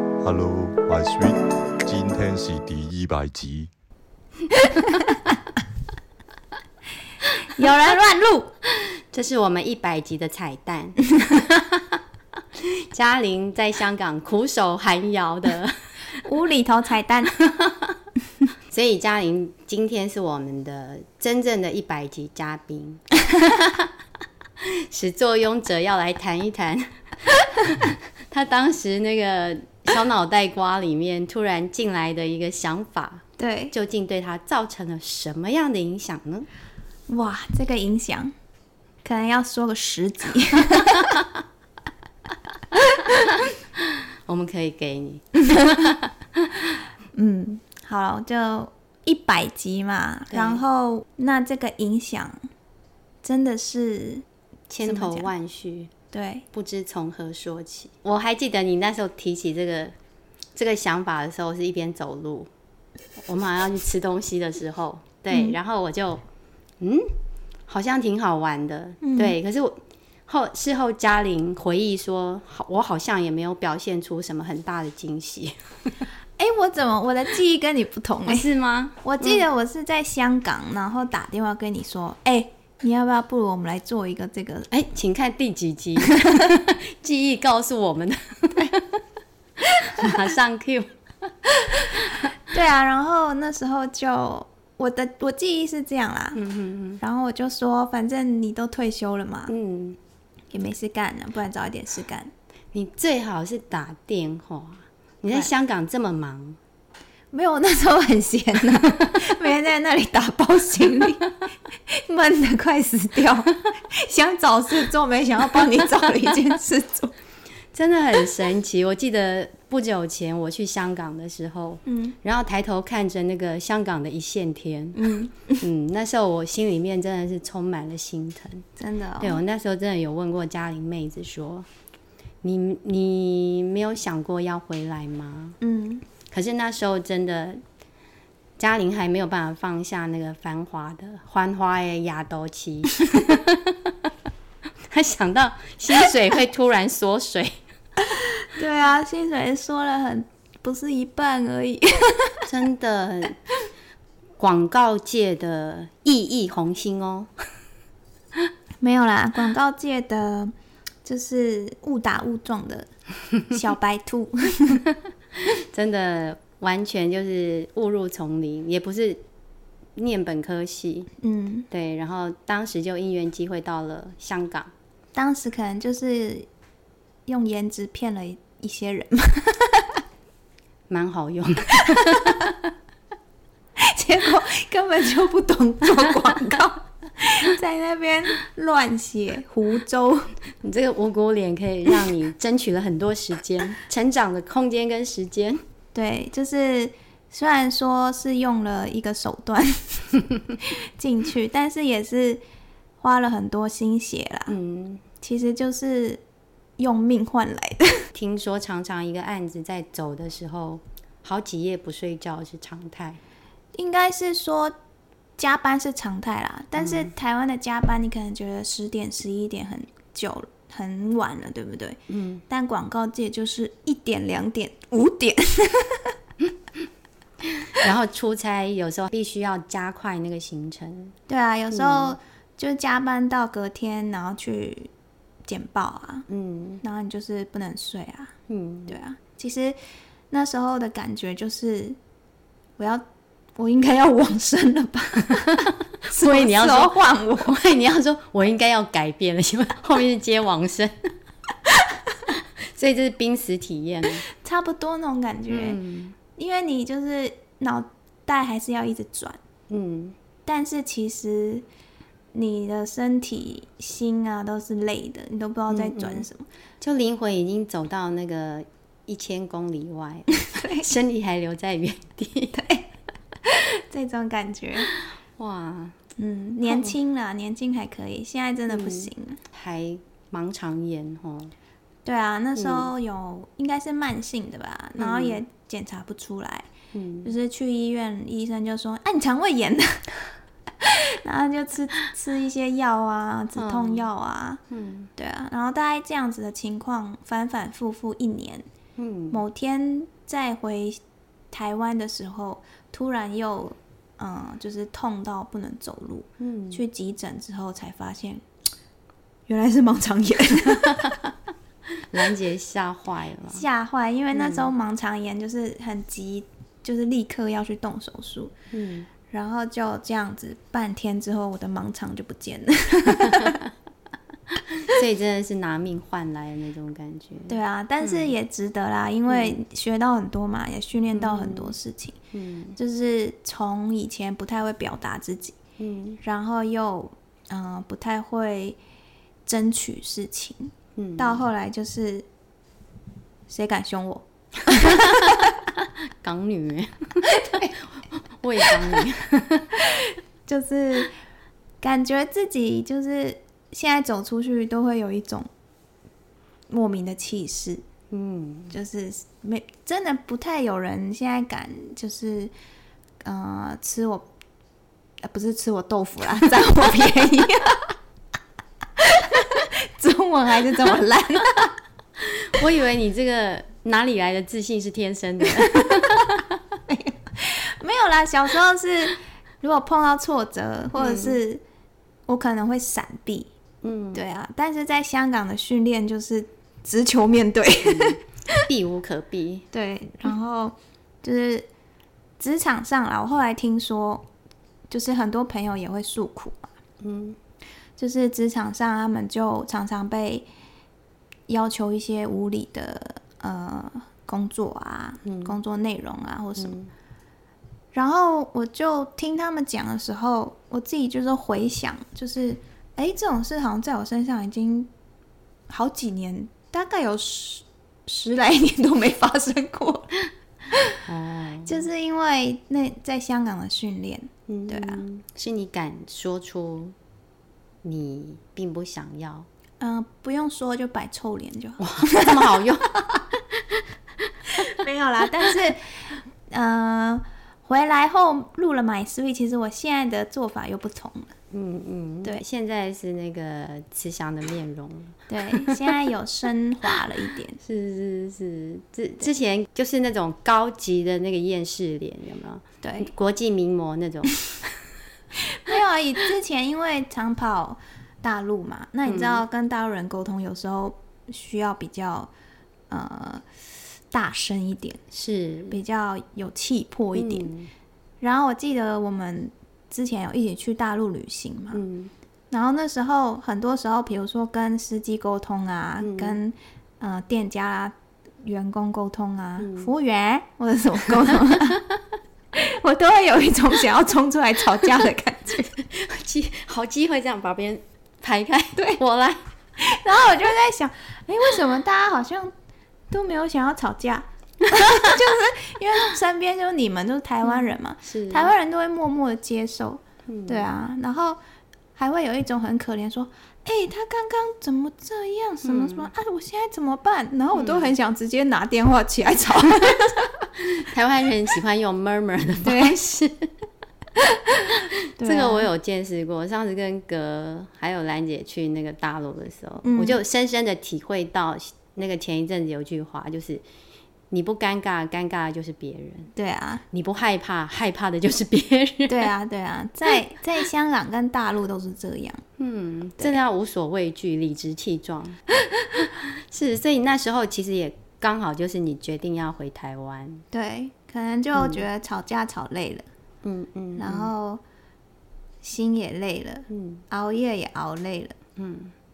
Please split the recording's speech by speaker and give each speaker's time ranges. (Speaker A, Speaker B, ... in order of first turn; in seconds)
Speaker A: 0.2-3.7
Speaker B: 4.8-5.0, 7.4-8.5, 16.2-17.4, 33.4-33.7, 37.1-38.3, 39.0-41.2, 47.1-52.4, 53.2-54.2, 54.8-55.3, 56.1-56.5, 69.0-69.4, 76.4-78.5, 79.0-84.7, 91.8-96.4, 97.0-99.5, 100.5-102.3, 107.3-111.3, 111.9-117.1, 121.9-122.2, 125.0-125.7, 128.8-129.4, 135.6-136.1, 148.1-152.5, 158.8-160.5, 161.0-162.9, 163.4-164.8, 171.2-171.7, 175.1-176.5, 177.3-180.0, 182.0-182.3, 183.8-190.3, 195.9-202.4, 203.0-204.6, 205.2-206.2, 206.8-208.1, 213.8-214.8, 215.4-226.2, 231.3-234.9, 235.5-236.3, 236.8-238.3, 238.9-239.8, 240.3-242.0, 242.8-243.0, 243.6-247.6, 254.3-255.8, 256.4-259.4, 260.5-261.6, 262.3-266.5, 270.4-270.9, 272.5-272.9, 273.4-274.9, 276.2-279.4, 282.1-286.7, 287.2-290.1, 290.8-294.6, 295.2-298.7, 299.3-301.0, 301.5-308.4, 309.5-311.2, 313.5-318.5, 319.3-323.6, 327.5-332.2, 332.8-335.6, 336.2-338.8, 339.5-342.3, 343.5-345.3, 347.3-347.7, 349.8-351.2, 351.8-355.5, 356.7-357.8, 358.7-362.5, 363.2-364.3, 365.2-367.9, 369.0-371.7, 375.6-376.3, 376.9-381.6, 382.3-383.5, 384.1-388.7, 389.7-391.7, 392.4-394.3, 394.9-396.7, 398.0-400.5, 401.5-406.8, 407.9-414.9, 415.7-420.1, 421.6-425.0, 429.8-433.2, 434.5-441.3, 445.3-447.6, 452.8-453.1, 455.4-462.3, 462.9-463.5, 464.1-465.0, 465.7-467.5, 468.2-471.8, 472.5-481.9, 482.5-485.8, 488.8-489.0, 489.8-492.5, 493.1-501.4, 502.0-510.2, 512.6-513.0, 514.3-515.7, 519.8-520.2, 526.4-526.8, 529.1-532.4, 540.5-543.1, 544.0-544.6, 545.6-548.4
Speaker C: 8.8-12.0, 12.6-15.8, 17.5-18.0, 18.7-23.9, 24.6-36.5, 43.1-46.6, 50.3-50.6, 54.7-55.9, 56.5-60.0, 60.5-62.5, 63.2-66.2, 66.8-67.1, 67.7-75.5, 78.3-79.4, 84.7-89.0, 89.7-91.0, 96.3-97.0, 99.5-100.0, 102.7-106.6, 117.7-128.7, 129.2-131.7, 132.4-135.6, 136.3-137.6, 138.6-144.1, 144.9-147.6, 152.5-153.4, 154.4-157.4, 165.3-169.2, 170.0-171.1, 171.7-174.7, 180.9-182.7, 190.6-195.6, 204.5-205.0, 208.1-213.2, 216.8-217.1, 222.1-222.4, 227.4-231.2, 231.7-232.2, 236.3-236.8, 238.5-238.9, 245.7-251.1, 252.3-254.2, 255.5-256.2, 259.7-260.2, 265.7-266.3, 266.8-272.6, 275.4-276.0, 276.6-276.9, 278.7-281.5, 282.6-282.9, 285.0-285.4, 286.9-287.3, 293.6-294.1, 294.7-295.1, 299.0-299.4, 306.4-306.8, 312.1-313.6, 314.3-314.7, 318.7-319.1, 324.8-328.3, 329.3-329.6, 331.1-331.8, 332.3-332.8, 335.8-336.2, 341.0-341.4, 344.7-349.8, 358.1-358.8, 372.2-376.4, 380.9-381.4, 383.8-384.2, 387.8-389.7, 397.0-397.4, 405.2-405.6, 406.6-406.9, 421.1-421.9, 424.5-427.0, 427.8-429.5, 431.8-432.9, 441.5-445.9, 447.6-454.7, 459.1-459.4, 465.1-465.8, 467.1-467.7, 471.7-472.1, 476.0-476.4, 479.6-479.9, 481.2-481.8, 485.9-489.4, 497.5-498.5, 500.3-500.7, 505.6-506.1, 507.5-507.9, 510.8-513.5, 515.2-523.6, 524.3-526.3, 526.9-529.3, 532.6-535.4, 536.0-540.5, 541.5-541.8, 543.4-544.3, 546.7-547.0, 548.6-548.9